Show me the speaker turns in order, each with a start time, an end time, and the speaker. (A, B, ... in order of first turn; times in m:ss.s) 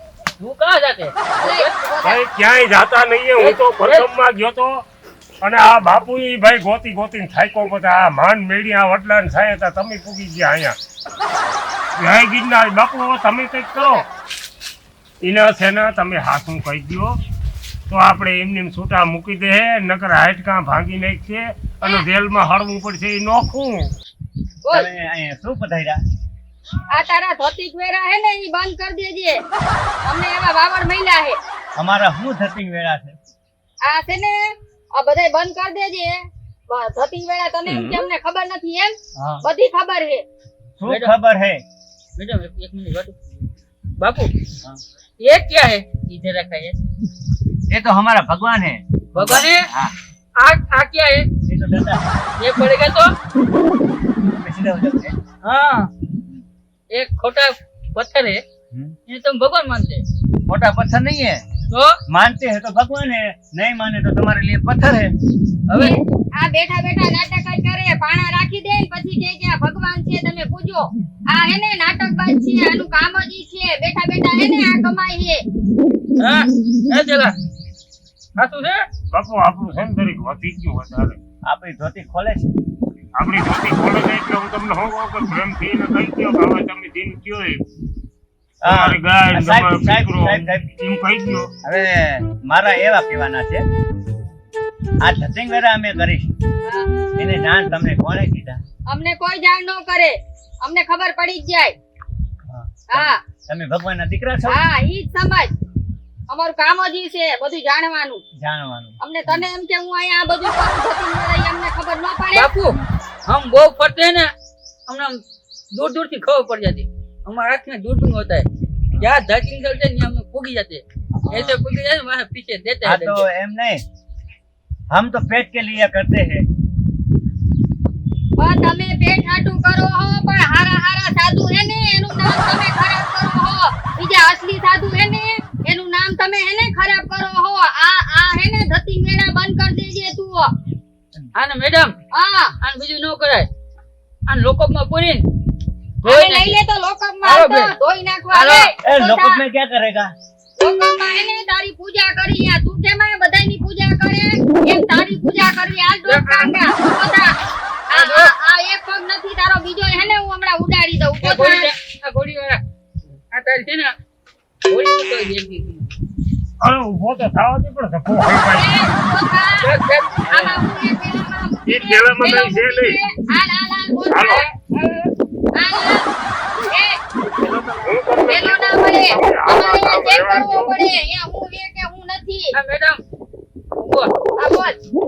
0:00.4-0:01.7 A
0:01.4-0:02.2 B
0:02.0-0:04.7 C
0:03.4-0:04.1 A
0:05.4-0:10.8 C
0:12.0-0:14.0 C
0:15.2-0:17.1 C
0:17.9-0:23.9 C
0:24.6-0:24.9 B
0:24.7-0:26.0 D
0:26.9-0:29.4 B
0:30.0-0:31.4 B
0:31.8-0:33.1 D
0:33.8-0:40.2 B
0:39.2-0:39.4 D
0:40.8-0:41.6 D
0:40.8-0:41.1 A
0:42.2-0:43.1 A
0:44.0-0:44.3 A
0:45.2-0:46.8 A
0:47.7-0:49.9 D
0:49.1-0:49.6 A
0:50.4-0:51.3 A
0:51.4-0:52.0 D
0:52.4-0:53.1 A
0:54.3-0:55.2 D
0:55.4-0:55.9 A
0:56.9-0:58.4 A
0:58.7-0:59.0 D
0:59.1-1:00.0 A
1:00.5-1:01.4 D
1:01.7-1:02.0 A
1:02.1-1:05.1 D
1:05.7-1:06.0 A
1:05.8-1:15.4 B
1:16.2-1:17.3 A
1:18.4-1:18.9 A
1:19.1-1:21.2 C
1:21.4-1:22.5 D
1:23.2-1:27.6 C
1:28.6-1:30.6 D
1:28.6-1:31.5 C
1:31.6-1:33.6 D
1:35.0-1:36.3 D
1:36.6-1:36.9 B
1:37.2-1:38.6 D
1:38.9-1:41.7 B
1:42.5-1:44.6 D
1:42.9-1:43.2 B
1:44.5-1:45.5 B
1:46.3-1:48.2 B
1:48.4-1:49.4 D
1:49.0-1:52.5 B
1:52.3-1:54.3 A
1:54.9-1:55.2 A
1:55.7-1:58.5 A
1:59.0-2:03.3 A
2:01.2-2:01.6 D
2:02.8-2:03.8 D
2:04.9-2:06.4 D
2:08.4-2:20.5 B
2:21.4-2:21.9 A
2:22.1-2:22.5 B
2:22.6-2:23.5 A
2:24.3-2:25.2 A
2:26.0-2:26.6 A
2:26.0-2:29.4 B
2:27.2-2:27.7 A
2:28.3-2:28.7 A
2:28.8-2:30.1 D
2:30.6-2:37.3 B
2:36.0-2:36.6 A
2:37.9-2:41.7 B
2:37.9-2:38.3 A
2:41.2-2:42.6 A
2:43.3-2:43.9 A
2:44.7-2:45.9 A
2:46.6-2:48.8 C
2:48.5-2:49.7 B
2:49.6-2:50.5 A
2:50.2-2:54.5 B
2:51.7-2:53.0 C
2:54.1-2:54.4 C
2:54.5-2:55.1 A
2:55.5-2:56.1 B
2:56.6-2:57.0 B
2:57.7-3:00.7 C
2:58.3-3:02.5 B
3:02.5-3:03.0 A
3:03.8-3:04.1 A
3:04.4-3:04.8 B